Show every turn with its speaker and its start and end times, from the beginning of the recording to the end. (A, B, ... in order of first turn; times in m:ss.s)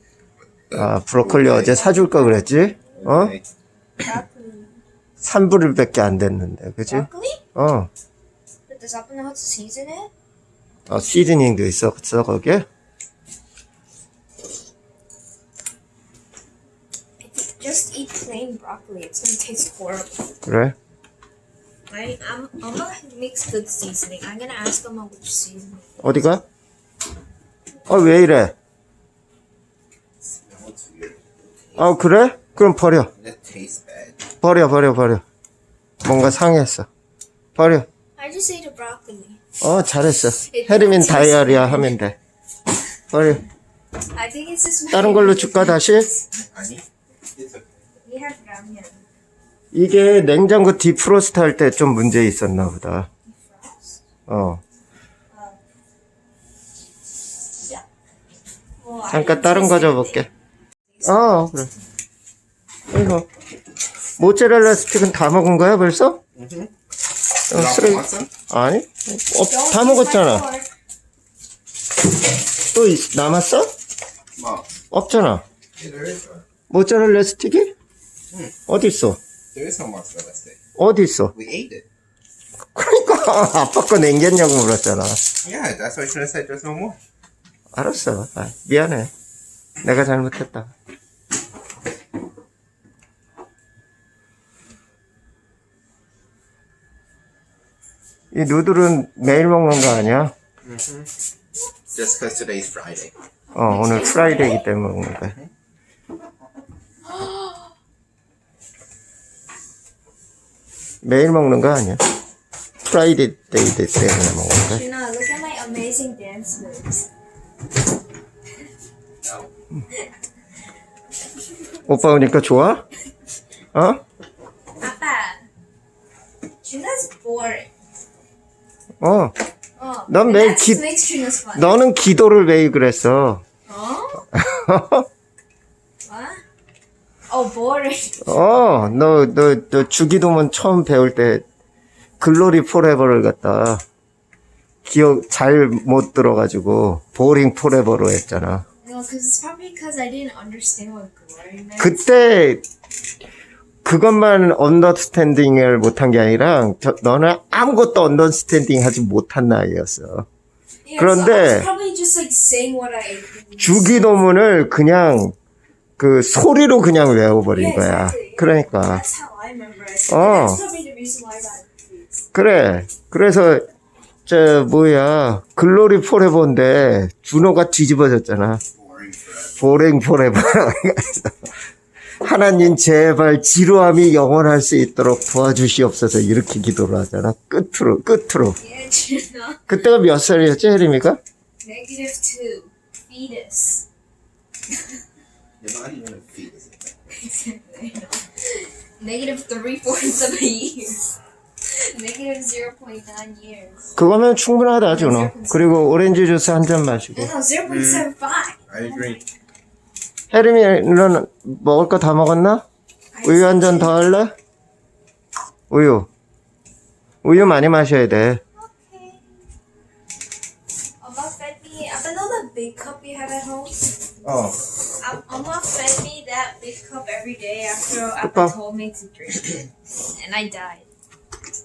0:00.7-0:03.4 A
0:01.2-0:01.7 B
0:01.5-0:02.9 C
0:03.0-0:03.4 B
0:04.0-0:04.8 C
0:05.2-0:07.9 A
0:06.9-0:07.4 C
0:08.7-0:10.1 C
0:10.9-0:12.7 A
0:17.2-0:20.3 C
0:20.4-0:20.8 A
0:21.9-0:26.3 C
0:26.0-0:26.4 A
0:27.9-0:28.5 A
0:30.2-0:31.8 B
0:31.8-0:33.1 A
0:33.2-0:34.3 B
0:34.4-0:35.2 A
0:36.0-0:36.9 A
0:37.6-0:37.9 A
0:38.2-0:39.4 C
0:39.6-0:42.2 A
0:40.5-0:42.0 C
0:43.1-0:43.4 A
0:44.1-0:46.2 C
0:44.9-0:46.1 A
0:46.5-0:47.8 B
0:48.0-0:49.0 C
0:49.7-0:53.1 A
0:53.3-0:54.0 C
0:54.3-0:54.6 A
0:55.3-0:55.6 C
0:58.8-1:00.3 C
0:59.1-1:00.3 A
1:00.9-1:01.8 C
1:01.0-1:01.7 A
1:02.9-1:03.3 A
1:04.2-1:06.2 A
1:06.3-1:06.7 B
1:07.5-1:10.5 A
1:07.5-1:08.3 B
1:09.4-1:10.7 C
1:12.6-1:13.7 A
1:14.4-1:14.7 B
1:14.9-1:15.4 A
1:15.8-1:16.4 B
1:16.7-1:17.7 A
1:18.7-1:19.2 A
1:19.5-1:20.6 B
1:20.8-1:21.3 A
1:21.3-1:21.8 B
1:22.7-1:25.2 A
1:25.4-1:27.0 B
1:27.7-1:29.1 A
1:29.8-1:30.7 A
1:38.3-1:40.3 A
1:40.6-1:41.1 B
1:41.9-1:43.1 B
1:43.5-1:45.3 A
1:43.6-1:44.6 C
1:47.1-1:47.7 C
1:51.0-1:52.0 A
1:52.8-1:54.8 A
1:54.6-1:57.0 C
2:01.8-2:02.8 A
2:03.7-2:04.0 A
2:04.8-2:05.5 C
2:06.6-2:07.7 C
2:09.0-2:09.3 A
2:09.8-2:11.8 C
2:10.1-2:10.8 A
2:11.5-2:13.4 A
2:13.7-2:14.3 C
2:14.3-2:15.1 A
2:16.0-2:16.4 C
2:17.3-2:18.4 C
2:18.2-2:21.4 A
2:22.2-2:23.8 A
2:24.8-2:28.6 A
2:28.8-2:32.0 C
2:31.8-2:32.6 A
2:33.8-2:40.3 A
2:40.8-2:44.1 C
2:41.0-2:41.7 A
2:43.6-2:45.3 A
2:46.0-2:49.0 A
2:47.5-2:52.2 C
2:50.1-2:50.6 A
2:52.3-2:53.7 A
2:54.2-2:58.6 A
2:58.8-2:59.4 B
2:59.4-3:01.5 A
3:02.2-3:08.6 A
3:08.6-3:09.7 C
3:09.7-3:11.2 A
3:11.6-3:13.8 C
3:15.6-3:16.9 B
3:17.1-3:21.0 C
3:21.6-3:23.8 C
3:24.0-3:27.3 A
3:24.9-3:25.9 C
3:27.2-3:29.2 C
3:27.7-3:28.1 B
3:28.7-3:29.2 B
3:30.3-3:32.6 A
3:33.1-3:34.1 C
3:33.2-3:34.3 A
3:35.7-3:36.1 A
3:37.2-3:38.4 A
3:38.6-3:39.4 C
3:41.0-3:43.9 C
3:44.2-3:44.6 A
3:45.0-3:50.9 C
3:48.2-3:48.5 A